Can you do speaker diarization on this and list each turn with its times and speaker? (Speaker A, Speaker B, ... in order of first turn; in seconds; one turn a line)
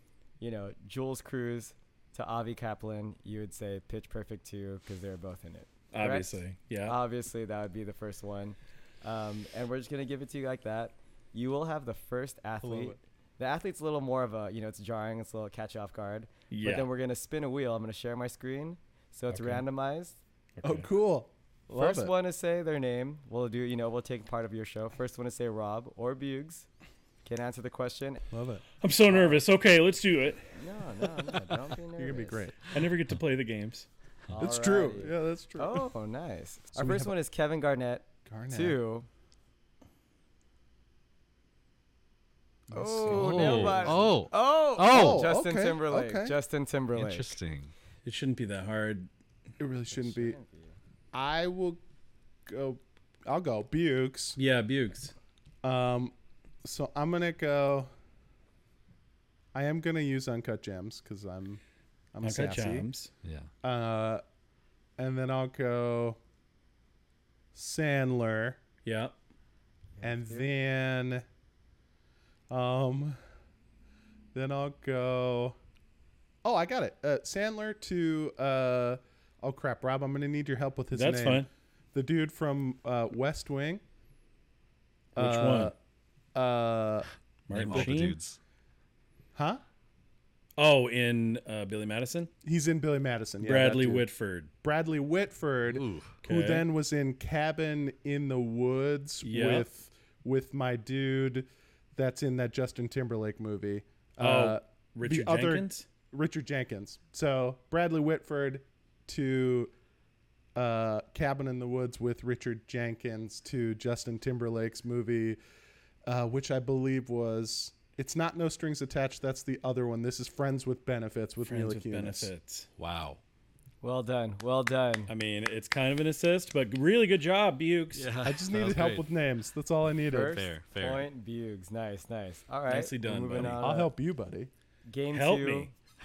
Speaker A: 0.4-20.2
Speaker B: 5.9-7.0
Speaker C: 12.6-13.0
Speaker B: 16.5-16.9
Speaker B: 20.6-20.9
Speaker C: 20.6-22.1
Speaker A: 21.7-26.7
Speaker A: 27.2-28.2
Speaker C: 28.3-29.3
Speaker B: 28.8-30.5
Speaker A: 30.5-32.5
Speaker C: 32.0-32.7
Speaker B: 32.7-33.9
Speaker A: 34.3-39.1
Speaker C: 34.4-35.9
Speaker C: 36.7-37.1
Speaker C: 38.3-38.8
Speaker A: 42.7-47.4
Speaker B: 43.0-44.0
Speaker D: 43.1-45.3
Speaker C: 44.8-46.4
Speaker D: 46.9-47.7
Speaker B: 48.0-49.1
Speaker C: 49.6-50.4
Speaker A: 49.9-50.8
Speaker C: 51.1-51.8
Speaker C: 52.5-54.4
Speaker B: 54.4-55.1
Speaker C: 55.6-56.1
Speaker C: 56.6-57.9
Speaker C: 59.5-61.6
Speaker C: 62.1-62.9
Speaker B: 62.2-63.1
Speaker D: 63.2-63.5
Speaker C: 63.6-64.2
Speaker C: 65.0-66.2
Speaker C: 67.5-68.6
Speaker B: 68.8-69.1
Speaker A: 70.0-70.5
Speaker C: 70.0-71.2
Speaker C: 72.5-73.2
Speaker C: 74.3-75.6
Speaker C: 76.4-83.8
Speaker B: 80.9-81.5
Speaker B: 85.2-85.7
Speaker C: 85.2-85.8
Speaker C: 86.3-87.1
Speaker B: 87.5-88.2
Speaker D: 87.5-88.4
Speaker C: 89.3-89.6
Speaker B: 90.6-92.3
Speaker C: 92.4-94.1
Speaker B: 93.4-94.5
Speaker C: 94.6-109.7
Speaker D: 95.7-96.1
Speaker B: 96.2-96.7
Speaker B: 99.2-99.7
Speaker B: 104.2-105.9
Speaker C: 110.6-115.4
Speaker C: 116.1-122.3
Speaker B: 121.4-122.7
Speaker D: 122.8-123.2
Speaker A: 123.8-125.1
Speaker B: 125.1-128.1
Speaker D: 127.9-129.1
Speaker C: 128.2-130.4
Speaker A: 130.1-133.9
Speaker D: 130.1-131.1
Speaker B: 132.7-133.7
Speaker C: 133.4-134.5
Speaker A: 134.9-135.7
Speaker B: 135.1-135.7